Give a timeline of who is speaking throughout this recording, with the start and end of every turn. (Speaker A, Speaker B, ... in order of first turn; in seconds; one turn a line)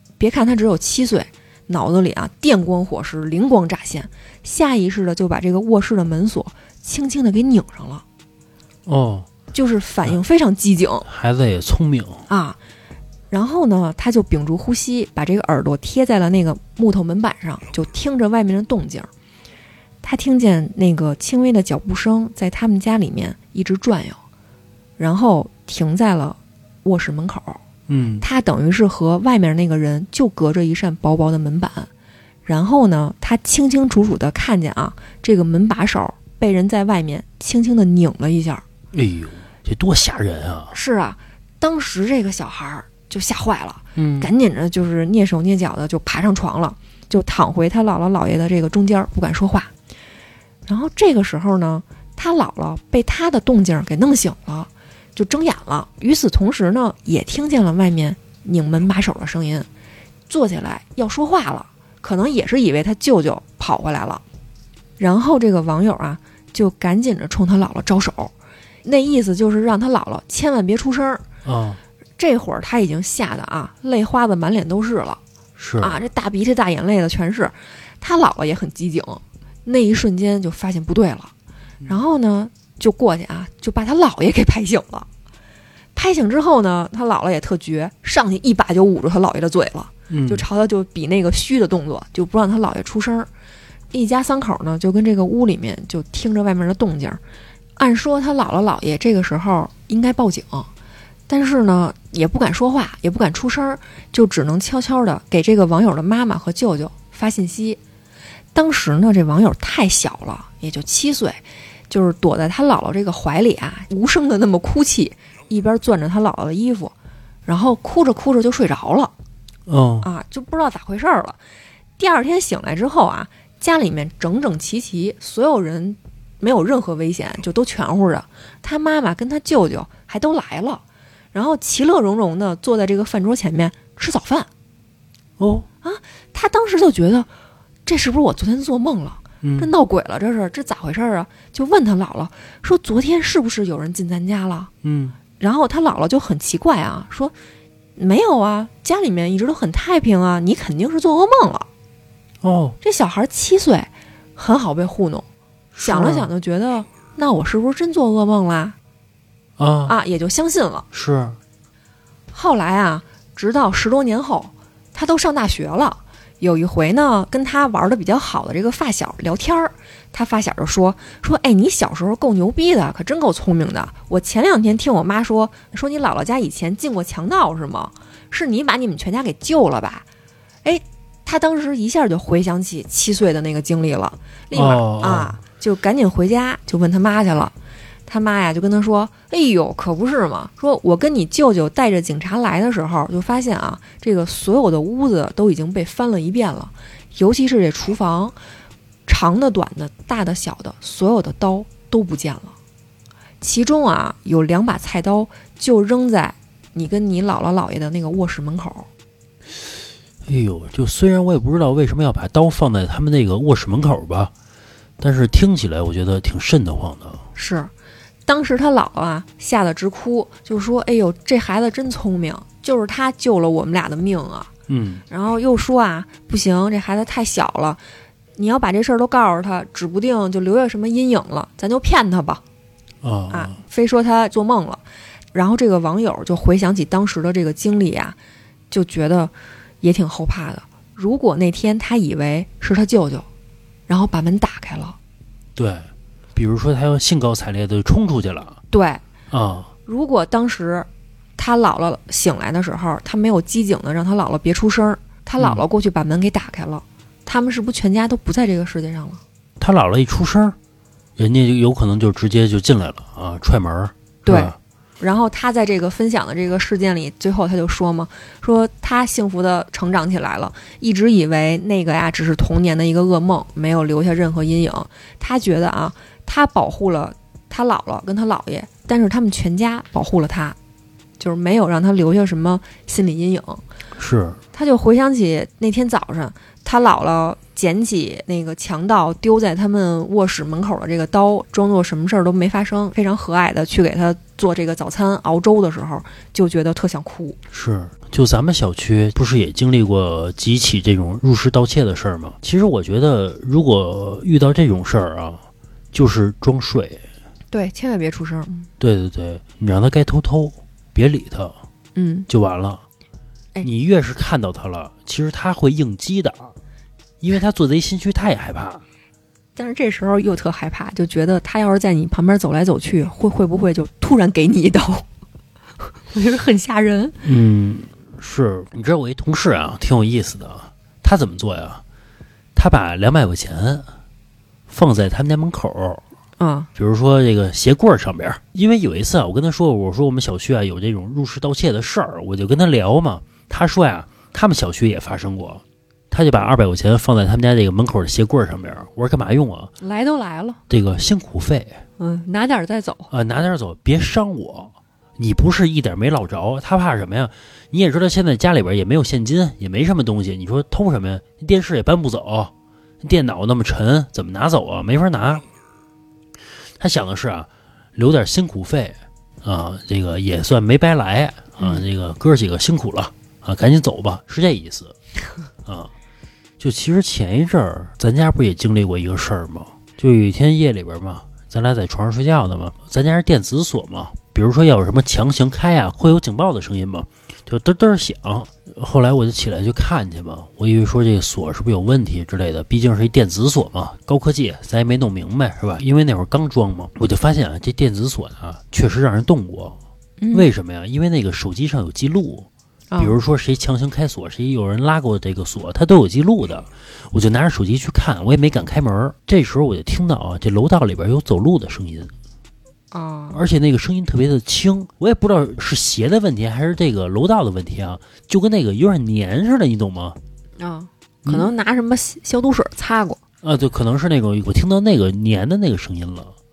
Speaker A: 0.2-8.0
Speaker B: 8.8-9.3
Speaker A: 9.5-11.1
Speaker B: 11.1-12.2
Speaker A: 12.3-12.6
Speaker A: 13.3-19.1
Speaker A: 20.0-24.2
Speaker A: 25.0-27.6
Speaker B: 27.9-28.2
Speaker A: 28.2-31.9
Speaker A: 32.5-38.6
Speaker B: 38.9-40.7
Speaker A: 40.7-49.7
Speaker B: 44.0-44.3
Speaker A: 50.6-59.7
Speaker A: 60.3-64.2
Speaker A: 65.0-68.3
Speaker A: 68.8-71.2
Speaker B: 71.4-71.8
Speaker A: 72.2-75.2
Speaker B: 75.6-76.0
Speaker A: 75.8-81.3
Speaker A: 81.9-85.1
Speaker A: 85.9-93.3
Speaker B: 90.1-90.4
Speaker A: 93.9-97.2
Speaker A: 97.8-100.7
Speaker A: 101.3-107.8
Speaker A: 108.5-116.9
Speaker A: 117.5-119.1
Speaker B: 119.7-120.1
Speaker A: 120.0-121.4
Speaker A: 122.0-134.5
Speaker B: 135.4-135.7
Speaker A: 135.8-137.3
Speaker A: 137.8-144.7
Speaker B: 139.4-139.7
Speaker B: 144.8-145.2
Speaker A: 145.4-147.3
Speaker A: 147.9-151.7
Speaker B: 152.4-152.8
Speaker A: 152.8-155.2
Speaker B: 155.7-156.3
Speaker A: 155.8-158.8
Speaker B: 159.6-159.9
Speaker A: 159.8-160.8
Speaker B: 160.9-161.4
Speaker A: 162.3-180.1
Speaker A: 180.6-187.5
Speaker B: 184.5-185.4
Speaker A: 188.1-198.3
Speaker A: 199.1-202.5
Speaker A: 203.4-208.9
Speaker B: 210.2-214.3
Speaker B: 215.0-217.2
Speaker A: 217.3-217.7
Speaker A: 218.2-224.5
Speaker B: 224.7-225.0
Speaker A: 225.1-227.8
Speaker A: 228.4-232.4
Speaker B: 233.0-233.6
Speaker A: 233.3-234.8
Speaker A: 235.3-238.2
Speaker A: 238.7-243.3
Speaker A: 243.9-245.0
Speaker B: 245.6-248.6
Speaker A: 248.7-249.0
Speaker B: 249.3-249.7
Speaker A: 249.9-259.2
Speaker B: 255.4-255.6
Speaker B: 259.6-260.6
Speaker B: 261.2-264.6
Speaker A: 264.2-280.6
Speaker A: 281.2-283.6
Speaker B: 283.9-284.4
Speaker A: 284.5-297.4
Speaker B: 297.5-307.0
Speaker A: 307.5-308.7
Speaker B: 308.8-311.6
Speaker A: 311.9-312.3
Speaker B: 312.3-312.8
Speaker B: 313.6-316.5
Speaker B: 317.2-318.8
Speaker A: 319.6-325.1
Speaker A: 326.1-327.2
Speaker B: 327.2-331.8
Speaker B: 332.5-333.9
Speaker B: 334.7-336.0
Speaker A: 336.4-336.7
Speaker B: 336.8-349.7
Speaker A: 349.8-350.6
Speaker B: 350.7-351.8
Speaker A: 352.0-353.1
Speaker B: 353.1-365.4
Speaker B: 366.8-374.9
Speaker A: 371.6-371.9
Speaker B: 375.6-375.9
Speaker B: 376.6-399.8
Speaker A: 400.2-400.5
Speaker B: 400.3-412.1
Speaker A: 402.9-403.1
Speaker A: 412.9-413.4
Speaker B: 413.3-420.2
Speaker A: 420.6-423.2
Speaker B: 423.4-426.3